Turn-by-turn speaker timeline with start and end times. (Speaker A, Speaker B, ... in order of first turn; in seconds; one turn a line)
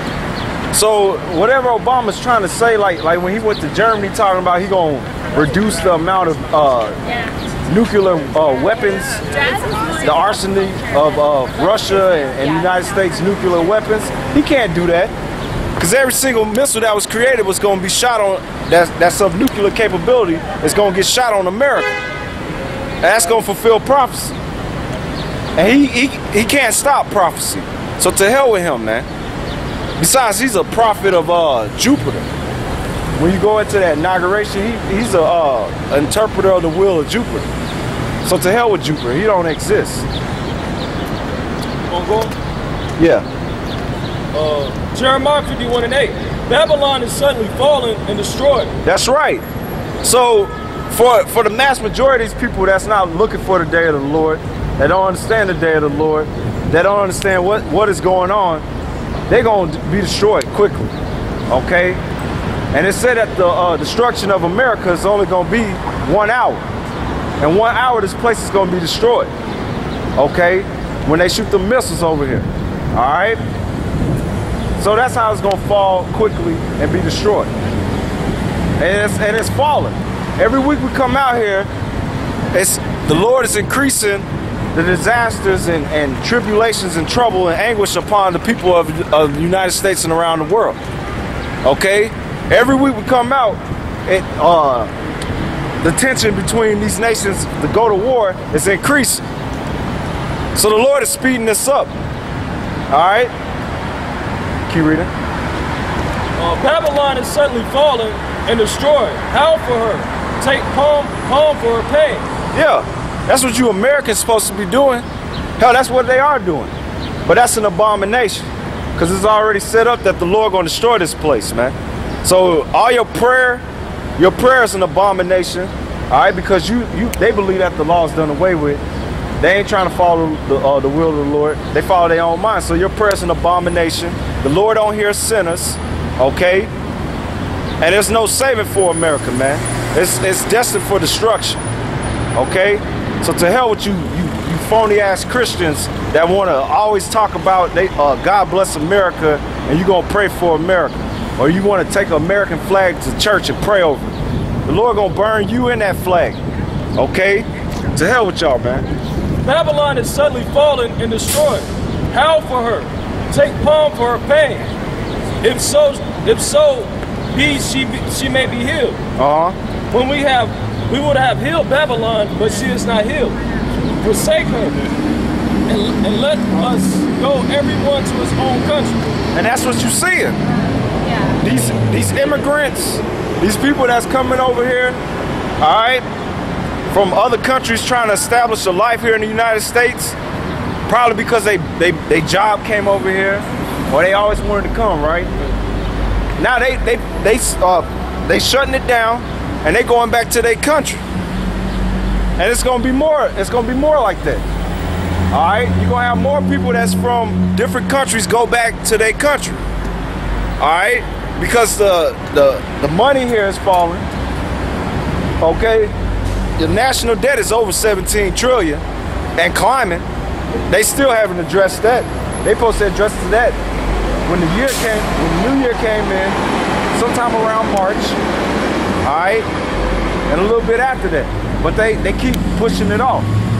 Speaker A: 0.7-7.0
Speaker A: 7.7-15.1
Speaker A: 15.8-21.9
Speaker A: 23.0-24.4
Speaker A: 25.6-29.1
Speaker A: 30.0-32.3
Speaker A: 33.2-37.5
Speaker A: 38.2-40.1
Speaker B: 41.9-42.3
Speaker A: 43.0-43.3
Speaker B: 44.3-48.7
Speaker A: 48.8-49.4
Speaker A: 50.0-58.6
Speaker A: 59.3-60.9
Speaker A: 61.5-62.0
Speaker A: 62.7-66.7
Speaker A: 67.4-69.3
Speaker A: 70.2-73.4
Speaker A: 74.8-77.5
Speaker A: 78.8-81.7
Speaker A: 82.5-90.8
Speaker A: 91.6-94.9
Speaker A: 95.8-99.2
Speaker A: 100.5-101.9
Speaker A: 102.9-103.3
Speaker A: 104.7-105.1
Speaker B: 106.4-112.2
Speaker A: 112.5-115.0
Speaker A: 115.6-116.7
Speaker A: 117.3-123.6
Speaker A: 124.2-128.8
Speaker A: 129.4-136.7
Speaker A: 137.8-141.6
Speaker A: 142.3-154.1
Speaker A: 154.7-156.4
Speaker A: 157.0-158.9
Speaker B: 159.4-164.7
Speaker B: 165.4-169.0
Speaker A: 169.2-169.6
Speaker B: 169.9-173.4
Speaker B: 174.0-174.8
Speaker B: 175.7-179.0
Speaker A: 179.3-180.4
Speaker A: 181.2-185.0
Speaker A: 185.6-186.0
Speaker A: 186.9-190.2
Speaker A: 190.9-195.3
Speaker A: 196.4-201.0
Speaker A: 202.4-204.4
Speaker A: 205.3-209.6
Speaker A: 210.6-214.1
Speaker A: 215.4-215.9
Speaker A: 216.6-218.8
Speaker A: 219.4-220.1
Speaker A: 220.7-223.6
Speaker A: 224.3-226.4
Speaker A: 226.9-228.2
Speaker A: 229.0-229.4
Speaker A: 230.3-233.3